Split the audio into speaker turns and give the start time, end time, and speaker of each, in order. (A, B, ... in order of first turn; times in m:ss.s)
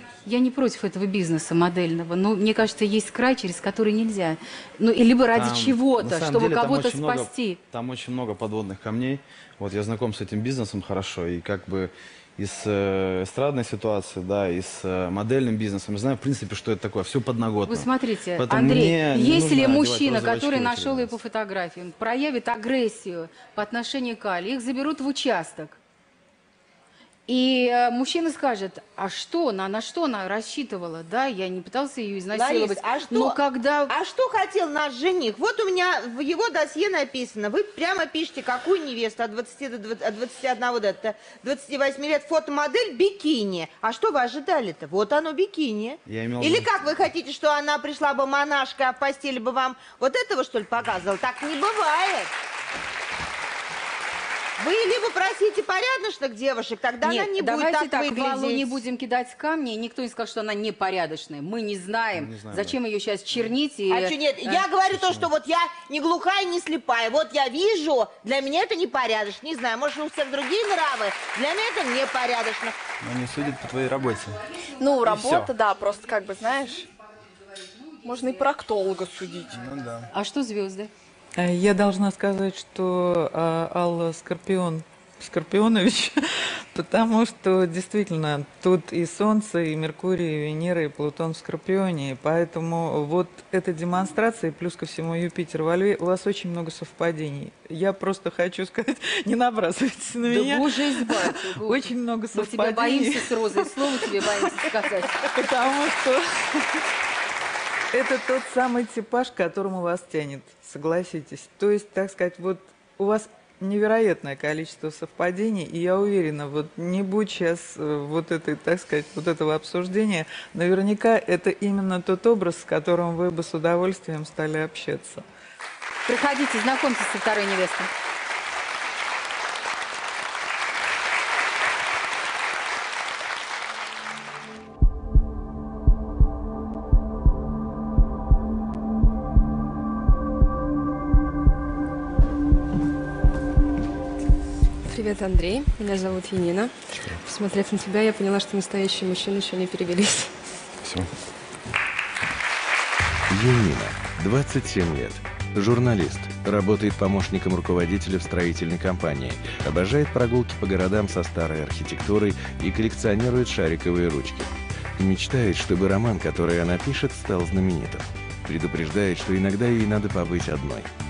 0:00.2-0:07.6 A
0:05.3-0:21.2 B
0:17.7-0:25.8 A
0:27.3-0:33.9 A
0:32.3-0:52.3 C
0:46.0-0:46.9 B
0:54.6-0:58.7 C
0:57.0-1:04.7 A
1:02.2-1:02.8 B
1:03.9-1:12.8 C
1:13.0-1:14.4 D
1:14.8-1:16.9 E
1:15.0-1:15.5 D
1:18.0-1:19.6 E
1:19.5-1:20.1 D
1:20.1-1:20.9 A
1:21.4-1:44.1 F
1:40.2-1:45.3 A
1:45.2-1:46.8 F
1:47.9-2:05.2 F
2:06.0-2:07.9 A
2:24.8-2:30.3 G
2:30.8-2:31.1 B
2:33.3-2:50.9 H